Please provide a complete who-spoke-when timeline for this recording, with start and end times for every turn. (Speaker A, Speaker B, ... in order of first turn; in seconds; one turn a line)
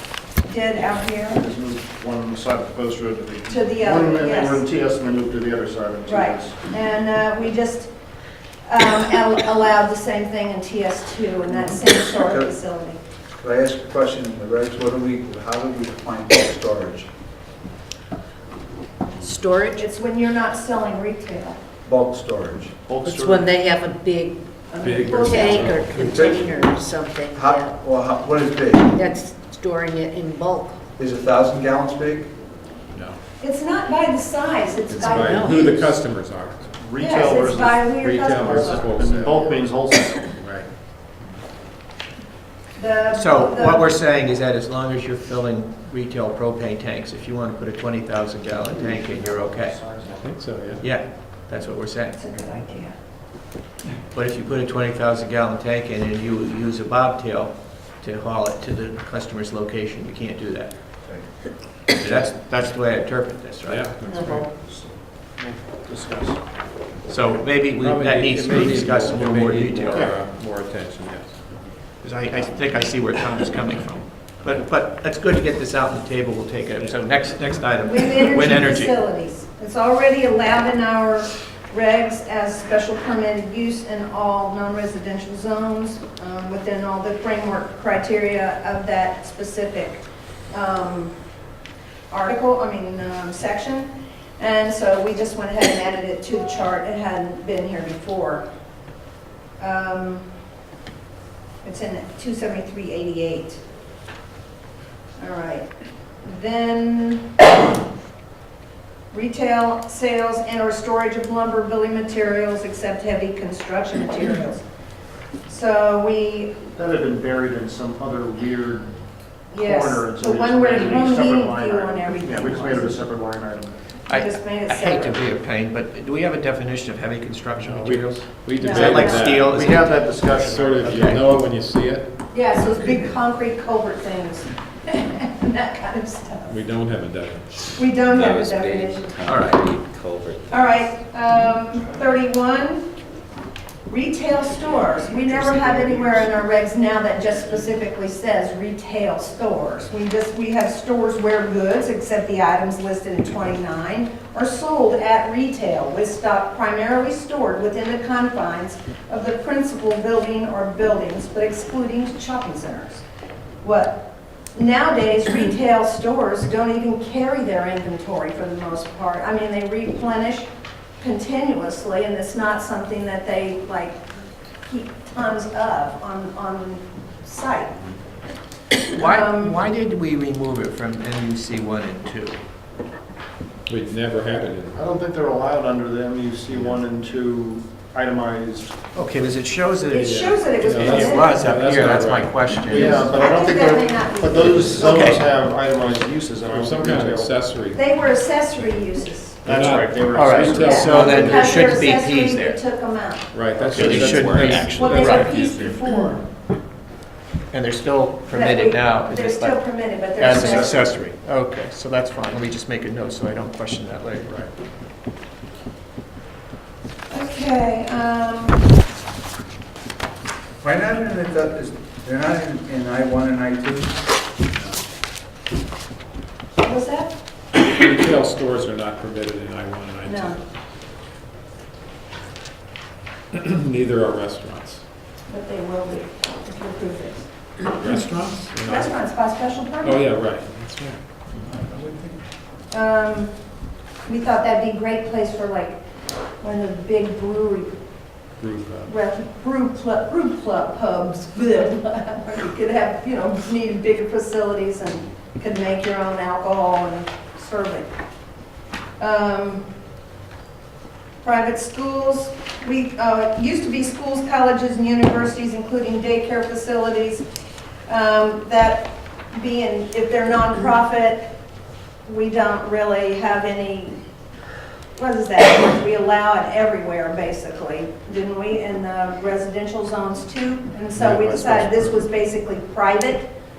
Speaker A: 0.4-1.4
Speaker B: 1.3-6.5
Speaker A: 3.5-4.6
Speaker A: 6.1-7.9
Speaker A: 8.7-13.0
Speaker C: 12.1-12.5
Speaker C: 13.4-17.1
Speaker D: 19.2-19.9
Speaker A: 19.8-21.6
Speaker C: 21.9-22.9
Speaker B: 22.9-23.5
Speaker D: 23.0-27.8
Speaker A: 24.7-25.9
Speaker E: 24.8-26.4
Speaker C: 25.9-26.6
Speaker C: 27.3-28.9
Speaker D: 28.9-30.9
Speaker C: 31.0-32.3
Speaker E: 32.9-33.2
Speaker A: 33.4-35.8
Speaker E: 34.9-36.7
Speaker D: 35.1-35.9
Speaker B: 36.8-40.3
Speaker A: 37.0-38.9
Speaker E: 38.0-39.7
Speaker E: 40.4-40.7
Speaker A: 42.8-43.9
Speaker F: 43.1-49.9
Speaker B: 49.0-50.3
Speaker E: 50.1-50.9
Speaker F: 50.8-52.2
Speaker A: 52.2-53.0
Speaker F: 54.1-61.0
Speaker F: 62.0-64.0
Speaker E: 62.0-62.3
Speaker E: 63.6-64.4
Speaker D: 64.1-64.5
Speaker B: 64.1-66.4
Speaker F: 67.1-70.1
Speaker E: 67.8-71.6
Speaker B: 69.9-70.2
Speaker F: 72.0-79.0
Speaker A: 77.8-91.2
Speaker A: 92.1-98.5
Speaker A: 99.6-100.3
Speaker A: 101.6-103.6
Speaker A: 105.2-105.7
Speaker A: 106.2-107.3
Speaker A: 109.1-114.6
Speaker A: 115.5-116.6
Speaker B: 116.8-118.9
Speaker A: 119.5-123.0
Speaker B: 119.5-123.8
Speaker F: 124.1-131.2
Speaker A: 124.1-125.2
Speaker E: 127.6-129.7
Speaker A: 128.6-129.4
Speaker B: 129.3-131.2
Speaker E: 130.3-132.1
Speaker A: 132.3-136.6
Speaker E: 136.5-137.8
Speaker A: 137.8-139.2
Speaker G: 138.1-140.6
Speaker F: 139.2-139.7
Speaker A: 140.5-142.9
Speaker A: 143.9-163.0
Speaker A: 163.6-174.0
Speaker A: 174.7-177.8
Speaker F: 178.9-182.4
Speaker A: 179.0-179.6
Speaker E: 183.7-184.8
Speaker B: 184.7-188.7
Speaker F: 188.9-193.1
Speaker A: 189.9-191.4
Speaker E: 190.0-193.1
Speaker B: 192.7-197.4
Speaker A: 192.8-195.2
Speaker F: 194.8-195.2
Speaker E: 195.8-197.8
Speaker A: 197.7-199.4
Speaker B: 199.4-201.4
Speaker E: 199.4-201.8
Speaker F: 200.1-202.6
Speaker A: 200.5-206.3
Speaker E: 203.3-205.8
Speaker F: 203.6-205.4
Speaker F: 207.5-214.3
Speaker A: 208.3-210.9
Speaker B: 210.4-210.7
Speaker A: 217.1-218.7
Speaker C: 220.6-224.0
Speaker A: 226.6-227.2
Speaker E: 227.6-230.4
Speaker A: 230.1-230.4
Speaker E: 233.3-234.8
Speaker A: 235.3-237.3
Speaker E: 237.7-238.9
Speaker A: 238.6-240.0
Speaker E: 239.8-241.0
Speaker C: 241.6-242.1
Speaker A: 242.7-243.3
Speaker A: 244.1-245.8
Speaker A: 246.4-247.8
Speaker E: 248.4-248.9
Speaker A: 248.8-257.9
Speaker A: 259.0-259.7
Speaker A: 261.2-267.3
Speaker A: 267.9-271.3
Speaker A: 272.1-274.0
Speaker A: 274.9-283.3
Speaker B: 281.0-281.9